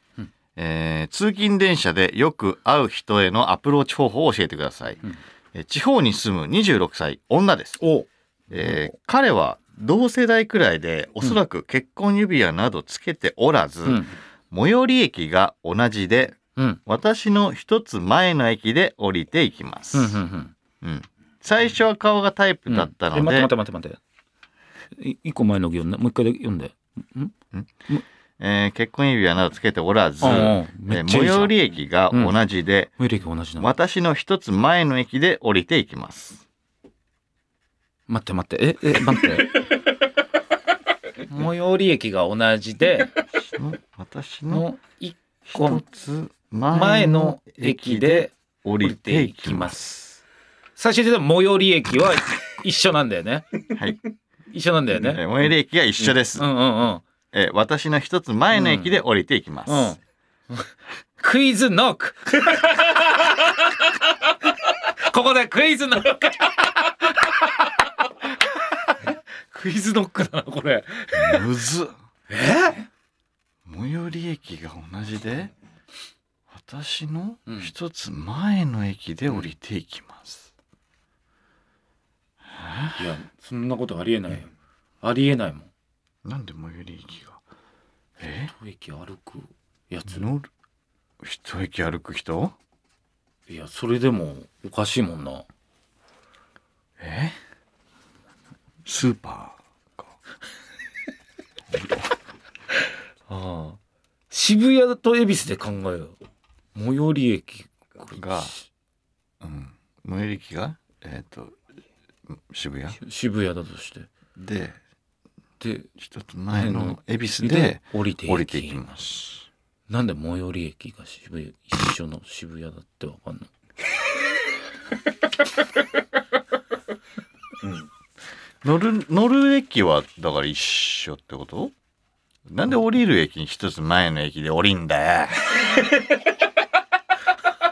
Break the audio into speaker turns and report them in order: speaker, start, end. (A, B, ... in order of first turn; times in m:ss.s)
0:00.6-0:05.0 A
0:05.5-0:07.8 A
0:07.8-0:08.8 B
0:08.5-0:20.2 A
0:13.8-0:14.1 B
0:19.9-0:20.5 B
0:20.8-0:23.5 A
0:22.7-0:24.0 B
0:24.9-0:27.3 B
0:28.4-0:32.9 A
0:30.2-0:31.5 B
0:33.0-0:33.7 B
0:33.6-0:36.4 A
0:38.1-0:39.7 B
0:41.3-0:43.1 B
0:43.4-0:44.6 A
0:44.5-0:45.8 B
0:45.5-0:50.0 A
0:46.7-0:50.0 B
0:50.8-0:53.6 B
0:53.7-0:54.0 A
0:54.5-0:55.2 B
0:54.9-0:56.5 A
0:56.3-0:57.0 B
0:57.3-1:00.0 A
0:58.5-0:59.0 B
0:59.7-1:00.0 B
1:01.2-1:03.9 B
1:04.6-1:11.4 B
1:11.1-1:11.9 A
1:12.3-1:12.9 B
1:13.6-1:15.5 A
1:16.5-1:20.5 A
1:22.5-1:23.0 A
1:23.0-1:24.5 B
1:25.0-1:25.7 B
1:26.2-1:27.4 A
1:28.2-1:28.5 A
1:28.5-1:30.2 B
1:30.1-1:30.5 A
1:31.2-1:32.5 A
1:33.5-1:35.4 B
1:37.0-1:37.4 A
1:38.8-1:40.1 A
1:41.7-1:42.1 A
1:43.3-1:43.8 B
1:44.3-1:46.2 B
1:46.7-1:48.4 B
1:48.1-1:48.5 A
1:49.4-1:51.6 A
1:52.3-1:53.0 A
1:53.0-1:54.1 B
1:54.4-1:54.8 A
1:55.6-1:55.9 B
1:56.0-1:59.5 A
1:56.5-1:58.8 B
1:59.9-2:03.5 B
2:08.6-2:11.7 A
2:12.5-2:15.7 A